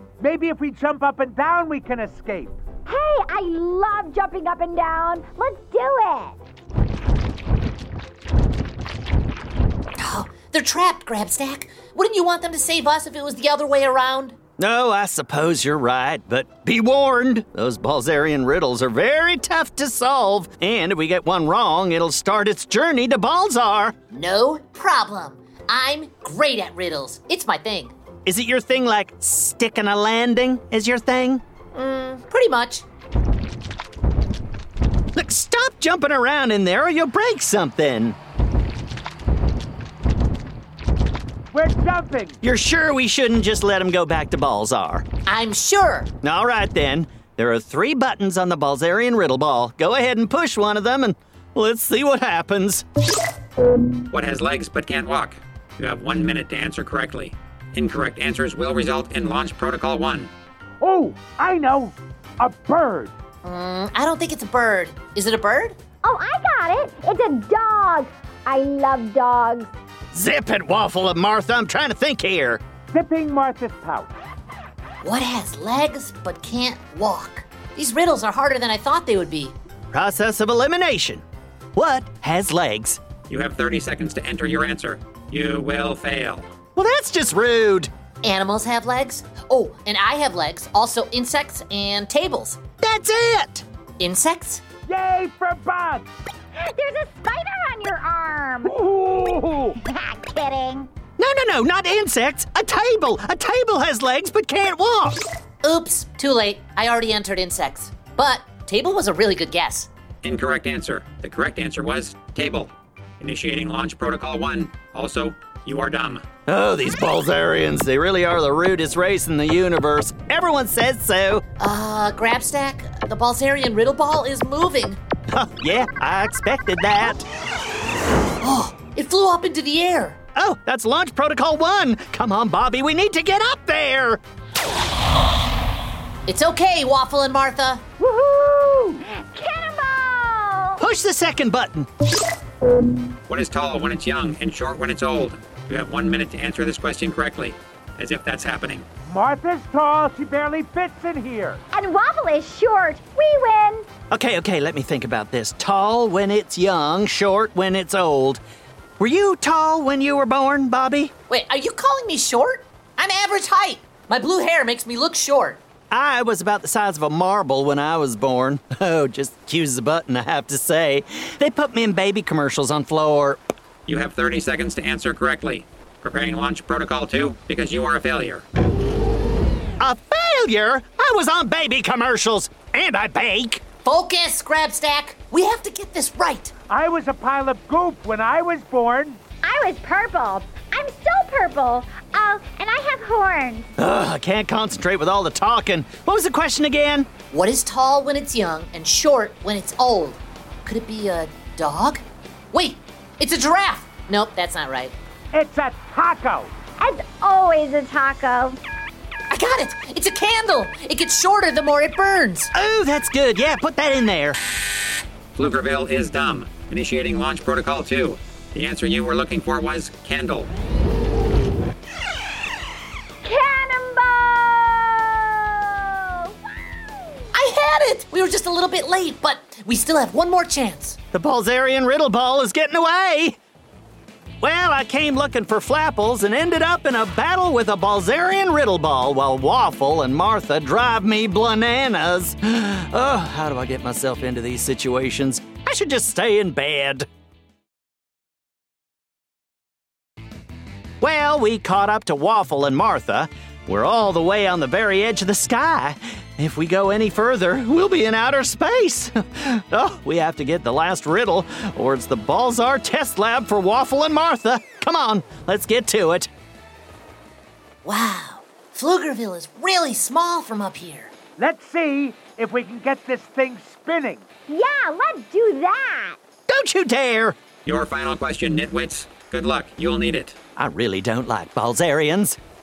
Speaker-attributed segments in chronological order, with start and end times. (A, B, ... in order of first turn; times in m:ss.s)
0:00.2-0:02.6 A
0:02.8-0:06.4 B
0:10.0-0:14.4 C
0:14.6-0:23.9 D
0:24.1-0:27.9 C
0:28.2-0:31.4 D
0:31.7-0:32.8 C
0:35.2-0:38.2 D
0:41.5-0:42.4 A
0:42.4-0:45.0 D
0:45.3-0:46.1 C
0:46.2-0:52.8 D
0:54.1-1:00.3 E
1:00.8-1:03.1 A
1:03.4-1:05.8 C
1:06.0-1:09.7 B
1:10.1-1:12.6 D
1:12.9-1:14.1 A
1:15.0-1:19.5 C
1:19.9-1:21.2 D
1:21.8-1:23.0 D
1:23.3-1:26.4 E
1:26.8-1:27.9 D
1:28.2-1:32.6 C
1:32.8-1:33.6 D
1:34.0-1:34.6 C
1:34.8-1:36.1 A
1:36.6-1:38.8 B
1:38.6-1:39.7 A
1:39.8-1:40.9 B
1:41.2-1:45.2 D
1:45.6-1:49.9 C
1:50.2-1:56.2 E
1:56.5-2:01.4 D
2:01.6-2:05.0 C
2:05.3-2:07.2 D
2:08.4-2:10.2 C
2:10.4-2:14.2 D
2:16.3-2:17.8 C
2:18.1-2:20.8 B
2:20.8-2:21.9 D
2:23.3-2:28.8 E
2:29.0-2:31.6 A
2:31.7-2:33.8 B
2:34.1-2:38.4 D
2:39.0-2:41.1 D
2:41.3-2:45.6 C
2:45.9-2:53.4 D
2:53.9-2:58.4 E
2:59.8-3:03.6 D
3:03.8-3:06.5 C
3:06.7-3:09.2 A
3:09.4-3:13.7 B
3:13.8-3:17.1 D
3:17.3-3:24.9 C
3:25.3-3:26.5 A
3:26.8-3:28.6 B
3:29.3-3:32.5 C
3:32.5-3:34.4 D
3:35.4-3:40.5 E
3:43.2-3:46.3 B
3:47.3-3:51.0 C
3:51.1-3:53.4 D
3:54.4-4:07.0 D
4:11.0-4:26.3 D
4:27.8-4:31.1 C
4:31.4-4:34.2 A
4:34.5-4:36.2 B
4:36.5-4:37.4 D
4:37.6-4:40.3 E
4:40.6-4:42.4 D